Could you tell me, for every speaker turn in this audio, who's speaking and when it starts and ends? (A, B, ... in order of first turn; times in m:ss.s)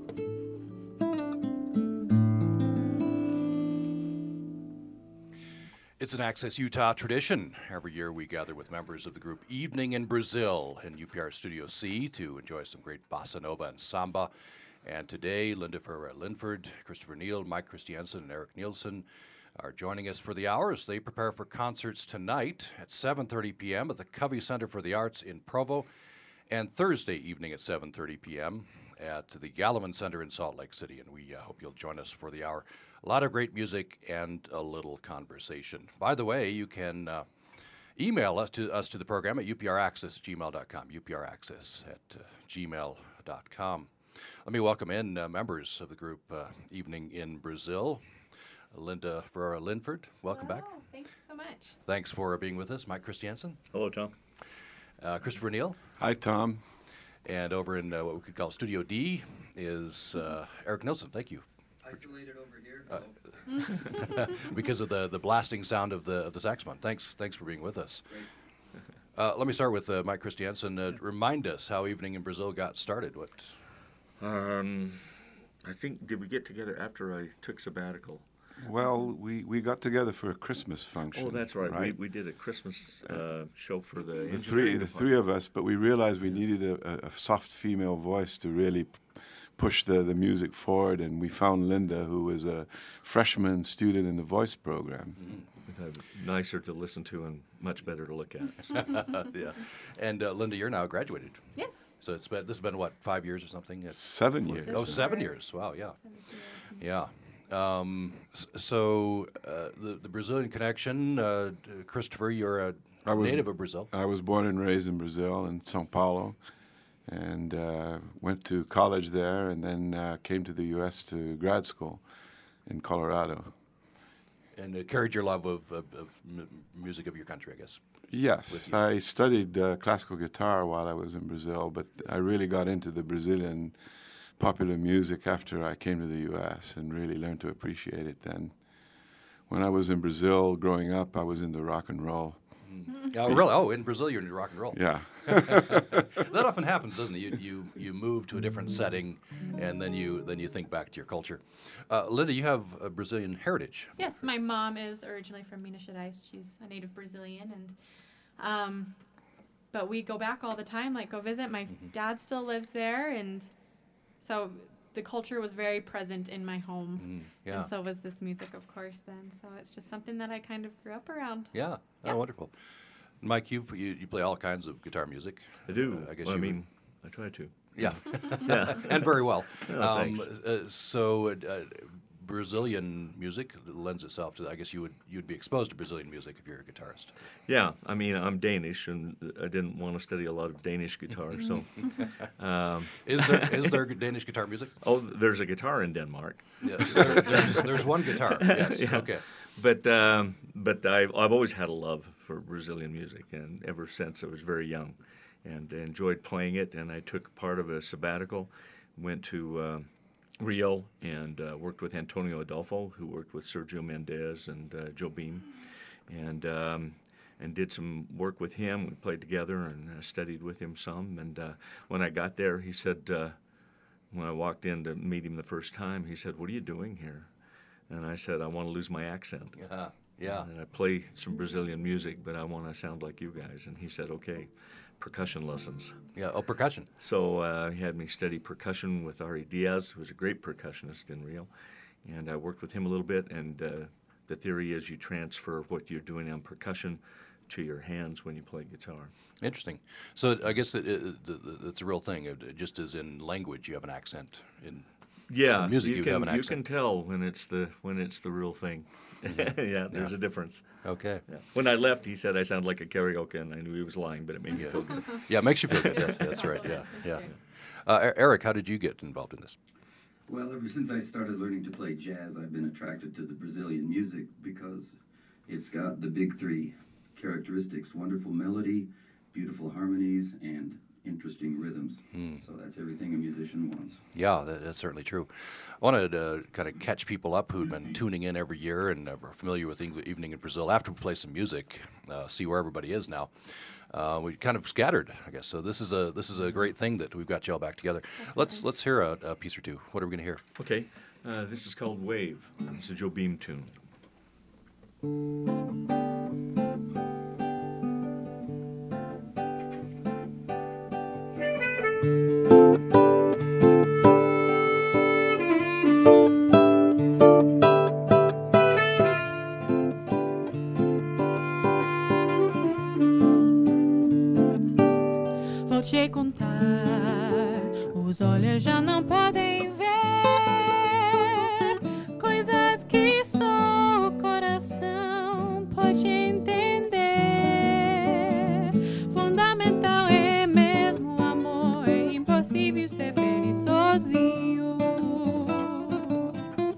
0:06.0-0:14.3 A
0:14.8-0:25.9 A
0:26.5-0:37.3 A
0:38.0-0:43.9 A
0:44.4-0:48.0 A
0:48.7-0:50.7 A
0:50.3-0:51.8 B
0:51.8-0:53.6 A
0:53.7-0:54.1 C
0:55.0-0:55.8 A
0:56.0-0:56.6 D
0:57.2-1:01.4 A
1:01.8-1:03.9 E
1:03.7-1:08.2 A
1:09.2-1:13.6 A
1:14.2-1:18.2 C
1:18.6-1:22.0 D
1:21.1-1:25.2 C
1:24.2-1:35.2 D
1:35.2-1:35.4 A
1:35.6-1:38.8 C
1:38.6-1:46.0 A
1:41.5-1:41.9 B
1:43.9-1:45.1 D
1:44.7-1:46.8 B
1:46.7-1:53.9 A
1:53.0-1:56.5 D
1:57.0-2:02.1 D
2:02.6-2:03.6 D
2:04.5-2:08.8 A
2:08.1-2:13.8 D
2:14.4-2:22.5 D
2:22.6-2:34.0 A
2:24.7-2:26.0 D
2:34.0-2:37.8 B
2:38.4-2:38.9 B
2:39.7-2:43.5 B
2:44.2-2:51.5 B
2:47.0-2:47.7 A
2:51.5-2:52.6 A
2:53.2-2:56.6 A
2:55.7-3:00.2 C
2:57.8-3:07.1 A
3:07.5-3:13.8 C
3:13.0-3:14.7 A
3:14.8-3:17.7 C
3:16.6-3:19.2 A
3:18.3-3:43.4 C
3:44.1-3:47.3 C
3:47.9-3:56.0 C
3:49.6-3:50.5 A
3:56.1-3:56.9 A
3:57.0-4:01.5 C
4:02.0-4:09.1 C
4:09.4-4:16.6 A
4:15.3-4:26.2 C
4:19.2-4:21.2 A
4:24.5-4:29.6 A
4:26.2-4:27.3 B
4:30.3-4:35.0 E
4:35.5-4:44.0 E
4:42.1-4:42.4 A
4:44.1-5:00.4 A
4:58.2-4:58.6 B
5:00.6-5:03.7 C
5:25.6-5:46.4 B